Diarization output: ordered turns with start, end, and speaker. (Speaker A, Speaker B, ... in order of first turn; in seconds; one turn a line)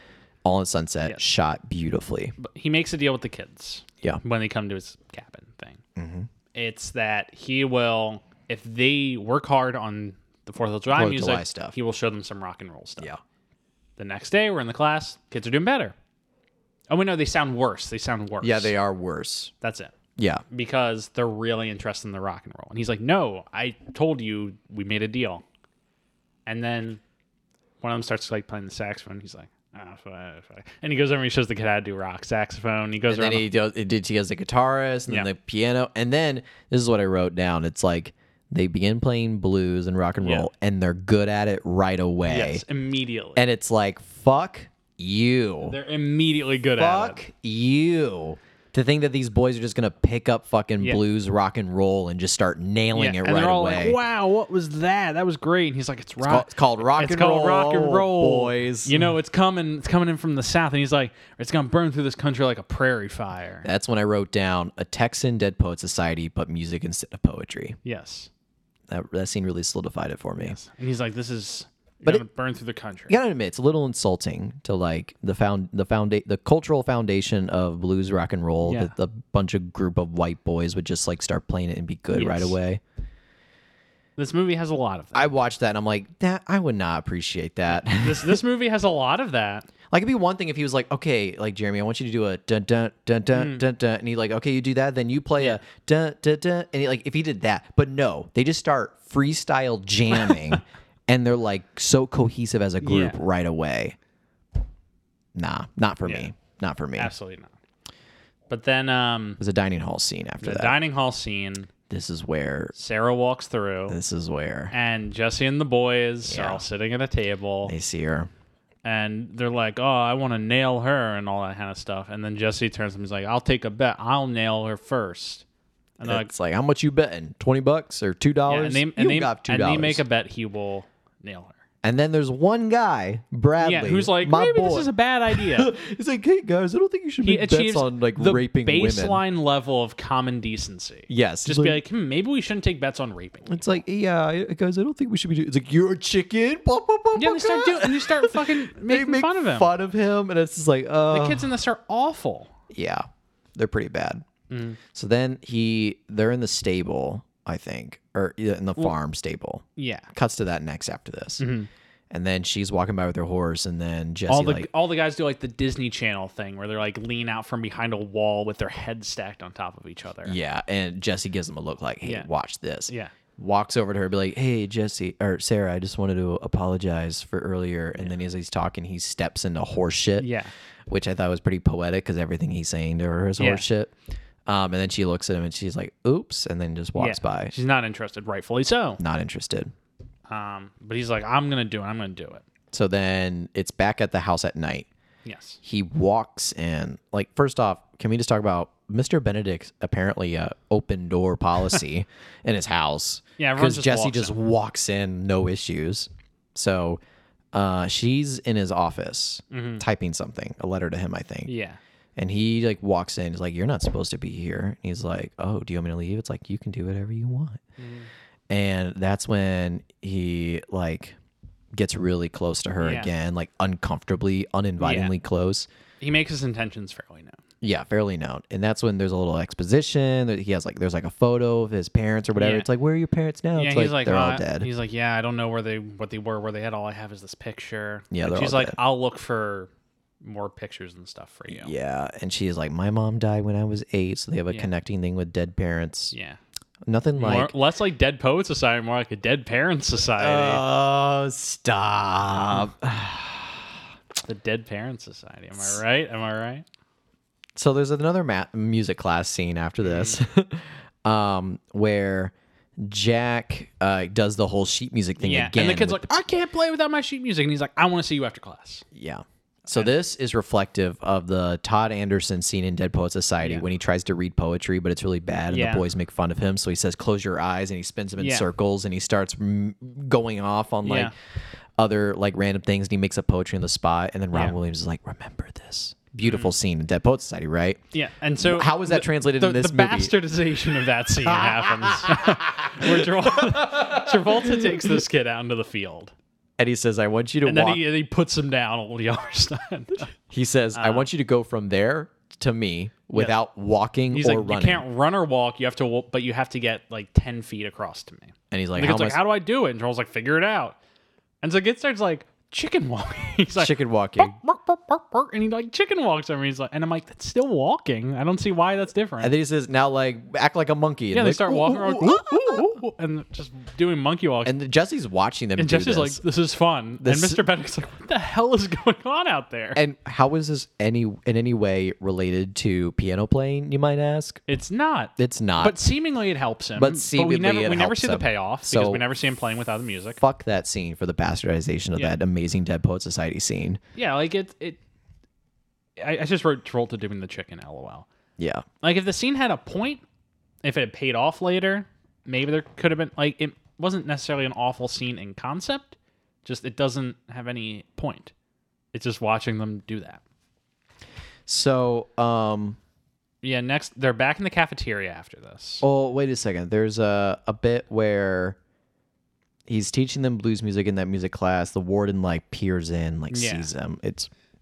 Speaker A: 0.4-2.3
Speaker B: 2.4-5.8
Speaker A: 6.0-6.3
Speaker B: 6.5-13.1
Speaker A: 10.9-11.8
Speaker B: 14.0-15.9
Speaker B: 16.9-18.7
Speaker A: 18.4-19.5
Speaker B: 19.6-19.9
Speaker A: 20.2-20.4
Speaker B: 20.5-25.4
Speaker B: 26.4-27.0
Speaker B: 27.8-33.5
Speaker A: 33.1-42.6
Speaker B: 40.2-40.5
Speaker B: 42.2-43.4
Speaker A: 43.3-45.8
Speaker B: 45.6-47.2
Speaker A: 46.8-54.0
Speaker B: 52.9-63.7
Speaker A: 56.2-59.0
Speaker A: 63.6-67.8
Speaker B: 67.8-68.3
Speaker A: 68.9-70.6
Speaker B: 70.4-73.2
Speaker A: 73.1-82.8
Speaker B: 78.6-78.9
Speaker B: 82.1-82.5
Speaker B: 84.2-85.3
Speaker A: 85.1-88.4
Speaker B: 87.8-89.7
Speaker A: 89.9-104.0
Speaker B: 93.3-93.6
Speaker B: 102.8-103.2
Speaker A: 105.3-107.1
Speaker B: 106.0-106.3
Speaker B: 107.0-107.5
Speaker B: 108.5-109.4
Speaker A: 109.4-110.8
Speaker B: 110.4-111.7
Speaker A: 111.9-112.7
Speaker B: 112.8-114.0
Speaker A: 113.9-114.7
Speaker B: 114.7-117.7
Speaker A: 116.2-116.6
Speaker A: 117.7-118.3
Speaker B: 118.8-125.4
Speaker B: 126.0-126.3
Speaker A: 126.0-130.0
Speaker B: 128.5-131.6
Speaker A: 131.8-139.2
Speaker B: 133.6-135.7
Speaker B: 137.2-143.8
Speaker A: 141.1-141.8
Speaker A: 143.4-151.4
Speaker B: 147.1-149.7
Speaker B: 151.1-152.5
Speaker A: 152.7-154.2
Speaker B: 154.5-154.8
Speaker A: 154.9-161.4
Speaker B: 159.8-160.1
Speaker B: 161.4-161.7
Speaker A: 162.1-164.7
Speaker B: 164.3-170.4
Speaker A: 170.2-180.3
Speaker B: 172.0-172.3
Speaker B: 172.9-173.1
Speaker B: 180.2-180.5
Speaker A: 180.9-183.9
Speaker B: 183.4-183.6
Speaker A: 184.4-187.5
Speaker B: 186.9-189.0
Speaker A: 189.0-189.7
Speaker B: 190.3-192.4
Speaker A: 192.7-194.9
Speaker B: 195.2-195.6
Speaker A: 195.6-207.0
Speaker B: 203.4-204.3
Speaker A: 207.5-211.5
Speaker B: 209.5-209.8
Speaker B: 211.4-211.8
Speaker A: 212.2-217.6
Speaker B: 217.8-218.1
Speaker A: 218.5-221.2
Speaker A: 221.7-225.7
Speaker B: 222.8-223.1
Speaker B: 224.8-225.1
Speaker B: 226.0-227.4
Speaker A: 227.6-234.7
Speaker B: 232.3-232.7
Speaker B: 233.6-239.7
Speaker A: 238.1-238.8
Speaker B: 240.2-241.7
Speaker A: 241.5-246.1
Speaker B: 246.1-246.4
Speaker A: 246.8-247.5
Speaker B: 247.2-250.6
Speaker A: 250.2-253.7
Speaker B: 252.3-252.7
Speaker B: 254.2-256.6
Speaker A: 257.6-266.0
Speaker B: 259.8-260.2
Speaker B: 265.2-268.8
Speaker A: 268.9-281.1
Speaker B: 273.4-273.6
Speaker B: 275.5-275.9
Speaker B: 278.2-278.5
Speaker B: 280.8-281.1
Speaker A: 281.8-287.8
Speaker B: 286.2-286.5
Speaker B: 287.9-296.1
Speaker A: 288.4-290.1
Speaker A: 291.2-295.0
Speaker A: 296.6-297.8
Speaker B: 297.4-300.1
Speaker A: 300.3-304.8
Speaker B: 300.7-301.1
Speaker B: 304.1-310.8
Speaker A: 308.5-309.2
Speaker B: 311.4-319.3
Speaker A: 313.6-314.4
Speaker A: 319.2-322.7
Speaker B: 321.1-324.5
Speaker A: 324.4-326.2
Speaker B: 325.6-329.8
Speaker A: 327.0-327.4
Speaker A: 329.7-334.4
Speaker B: 334.5-340.2
Speaker A: 335.2-335.8
Speaker A: 336.8-339.0
Speaker A: 340.2-343.8
Speaker B: 343.9-344.8
Speaker B: 346.0-348.1
Speaker A: 348.4-348.6
Speaker B: 348.8-350.0
Speaker B: 350.6-358.3
Speaker B: 358.9-360.2
Speaker A: 361.5-362.8
Speaker B: 363.4-365.9
Speaker A: 365.8-368.6
Speaker A: 369.7-374.3
Speaker B: 373.3-373.7